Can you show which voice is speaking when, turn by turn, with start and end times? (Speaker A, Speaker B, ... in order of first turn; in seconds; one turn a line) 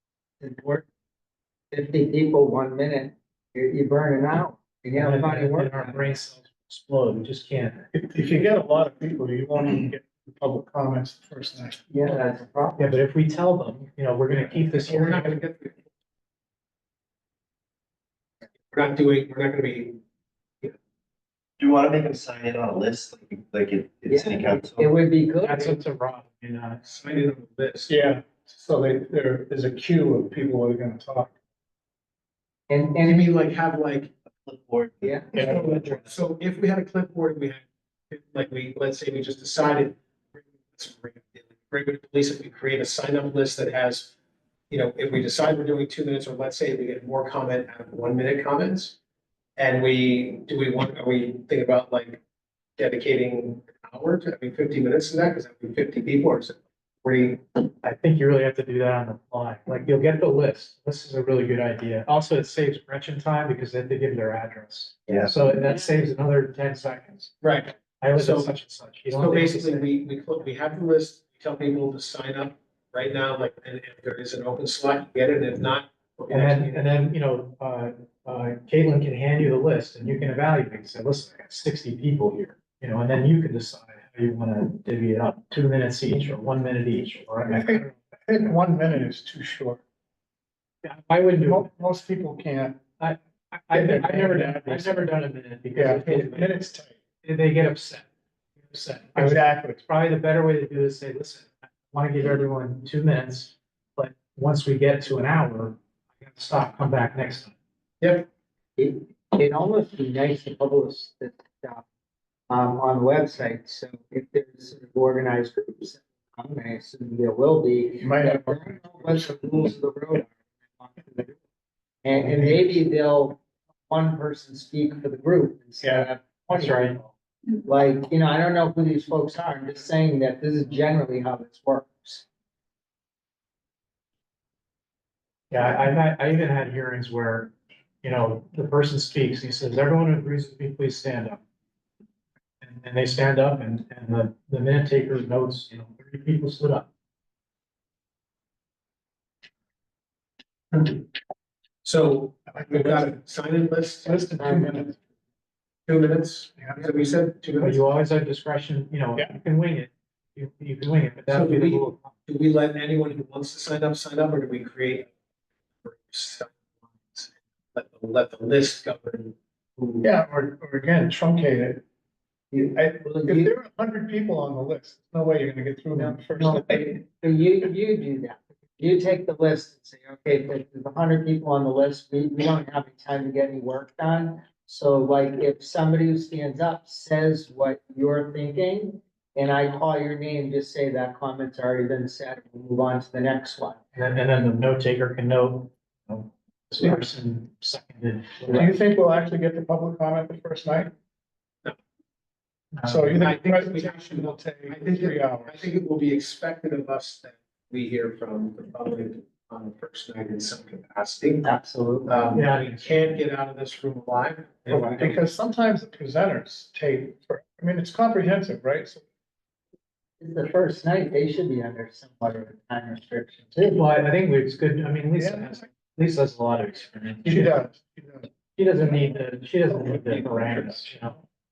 Speaker A: 0.4-0.9
Speaker A: 1.7-6.2
Speaker B: 5.0-7.9
Speaker C: 7.9-11.8
Speaker A: 11.9-12.9
Speaker B: 12.8-15.4
Speaker D: 14.5-15.9
Speaker D: 18.7-20.0
Speaker E: 21.6-24.9
Speaker A: 24.1-25.8
Speaker B: 25.4-26.8
Speaker D: 26.8-27.9
Speaker C: 27.9-31.3
Speaker A: 32.7-33.4
Speaker D: 33.0-34.1
Speaker E: 34.4-36.2
Speaker A: 35.0-36.1
Speaker C: 35.3-35.7
Speaker D: 35.4-44.1
Speaker D: 44.7-49.0
Speaker D: 49.6-52.2
Speaker D: 52.8-57.6
Speaker B: 57.8-67.3
Speaker E: 65.1-65.4
Speaker D: 67.4-68.5
Speaker B: 67.8-69.9
Speaker D: 69.1-76.9
Speaker B: 76.3-87.9
Speaker C: 87.5-89.8
Speaker B: 90.8-91.7
Speaker C: 91.4-92.8
Speaker B: 93.0-96.5
Speaker C: 93.7-95.2
Speaker C: 95.7-97.0
Speaker D: 96.0-96.4
Speaker B: 97.2-98.1
Speaker B: 98.6-107.5
Speaker C: 99.2-99.8
Speaker D: 108.0-108.3
Speaker A: 108.8-111.8
Speaker A: 112.5-121.4
Speaker C: 118.0-119.4
Speaker A: 122.0-127.0
Speaker C: 122.2-122.8
Speaker C: 125.8-126.1
Speaker B: 126.4-127.1
Speaker A: 127.5-132.2
Speaker B: 135.5-141.4
Speaker B: 142.6-146.9
Speaker D: 150.7-151.1
Speaker D: 151.8-154.2
Speaker C: 152.5-153.2
Speaker C: 154.1-155.0
Speaker A: 154.4-154.8
Speaker D: 155.9-157.9
Speaker B: 157.6-162.1
Speaker D: 161.3-165.1
Speaker D: 165.8-170.1
Speaker C: 170.0-171.8
Speaker A: 172.5-173.5
Speaker C: 172.7-177.0
Speaker A: 175.9-193.8
Speaker B: 193.9-198.7
Speaker C: 198.5-200.9
Speaker B: 202.8-203.2
Speaker C: 202.8-205.7
Speaker D: 203.1-211.5
Speaker A: 211.4-212.3
Speaker D: 212.1-215.2
Speaker B: 212.3-213.2
Speaker A: 214.7-215.0
Speaker C: 215.0-219.0
Speaker A: 220.2-223.8
Speaker B: 223.6-227.6
Speaker C: 225.2-225.6
Speaker C: 227.2-228.3
Speaker B: 228.5-231.2
Speaker D: 230.0-230.2